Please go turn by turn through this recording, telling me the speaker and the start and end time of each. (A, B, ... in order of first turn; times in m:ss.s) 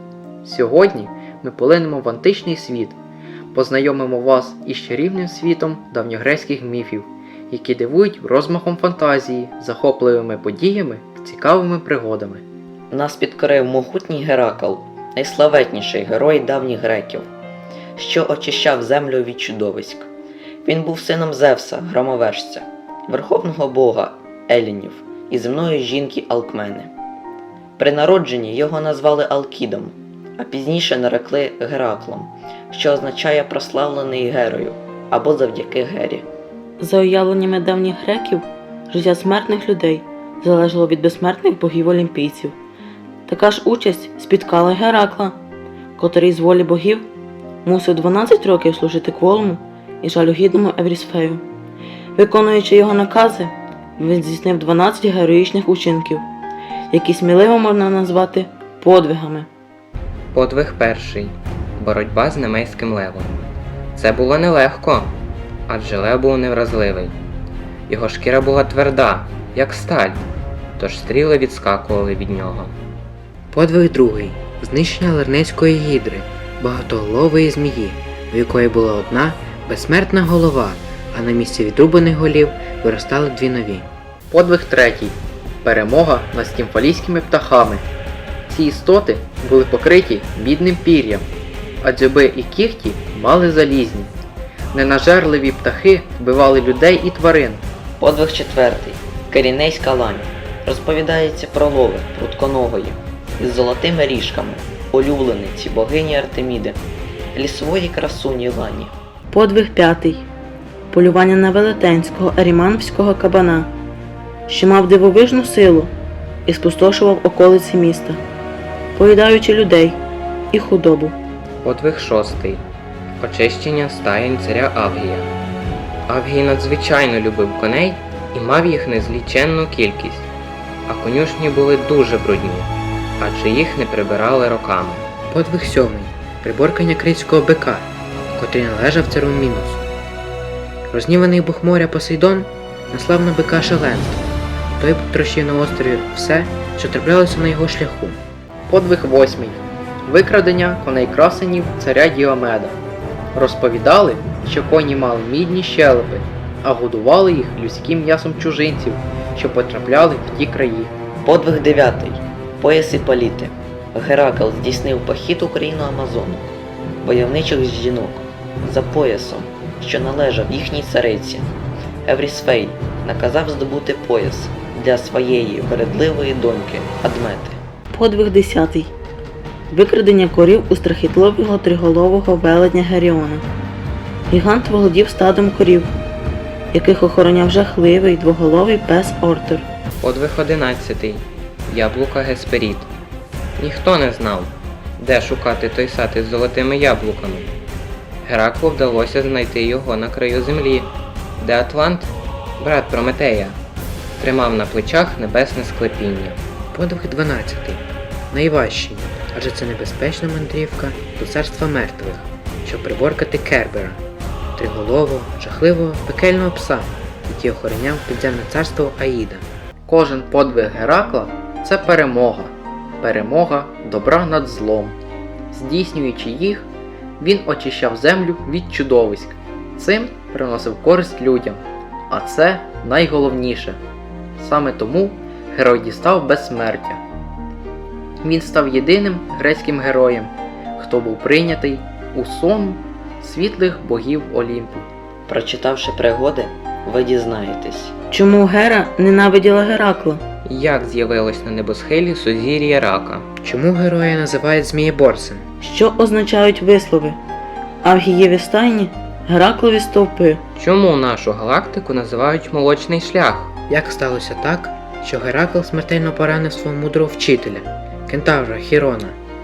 0:00.4-0:03.0 A
0:03.5-0:12.4 A
0:12.9-0:17.3 B
0:18.0-0:20.1 B
0:20.6-0:26.9 B
0:27.8-0:36.3 B
0:36.8-0:42.6 C
0:43.3-0:45.4 C
0:46.0-0:47.1 C
0:47.6-0:51.4 C
0:52.2-0:56.3 C
0:56.9-0:59.5 C
1:00.3-1:03.4 D
1:04.0-1:05.1 D
1:05.7-1:07.2 D
1:07.9-1:10.2 D
1:10.8-1:12.8 D
1:13.5-1:23.9 E
1:24.3-1:27.8 A
1:28.5-1:31.3 A
1:31.8-1:34.1 A
1:34.7-1:37.6 A
1:38.0-1:46.8 B
1:47.3-1:48.9 B
1:49.3-1:50.3 C
1:50.9-1:53.7 C
1:54.5-1:55.9 C
1:56.5-1:58.2 C
1:59.0-2:00.0 C
2:00.5-2:01.2 C
2:01.6-2:02.6 D
2:03.2-2:05.3 D
2:06.1-2:10.3 D
2:10.9-2:15.0 D
2:15.3-2:19.8 E
2:20.9-2:24.2 E
2:24.8-2:28.2 E
2:28.7-2:32.8 A
2:33.4-2:40.9 A
2:41.2-2:46.5 B
2:47.0-2:51.5 B
2:52.1-2:57.6 B
2:57.9-2:58.9 C
2:59.7-3:03.4 C
3:04.3-3:05.9 C
3:06.7-3:09.6 C
3:10.0-3:12.9 D
3:13.6-3:17.5 D
3:18.2-3:23.6 D
3:24.2-3:26.4 D
3:26.7-3:34.0 E
3:34.6-3:39.4 E
3:39.9-3:45.0 A
3:45.5-3:46.7 A
3:47.2-3:53.8 A
3:54.4-3:57.0 A
3:58.2-4:04.9 A
4:05.3-4:07.9 B
4:08.1-4:10.2 C
4:10.4-4:13.3 D
4:13.4-4:15.4 E
4:15.6-4:17.2 C
4:17.8-4:20.4 C
4:20.6-4:23.5 D
4:23.7-4:29.2 E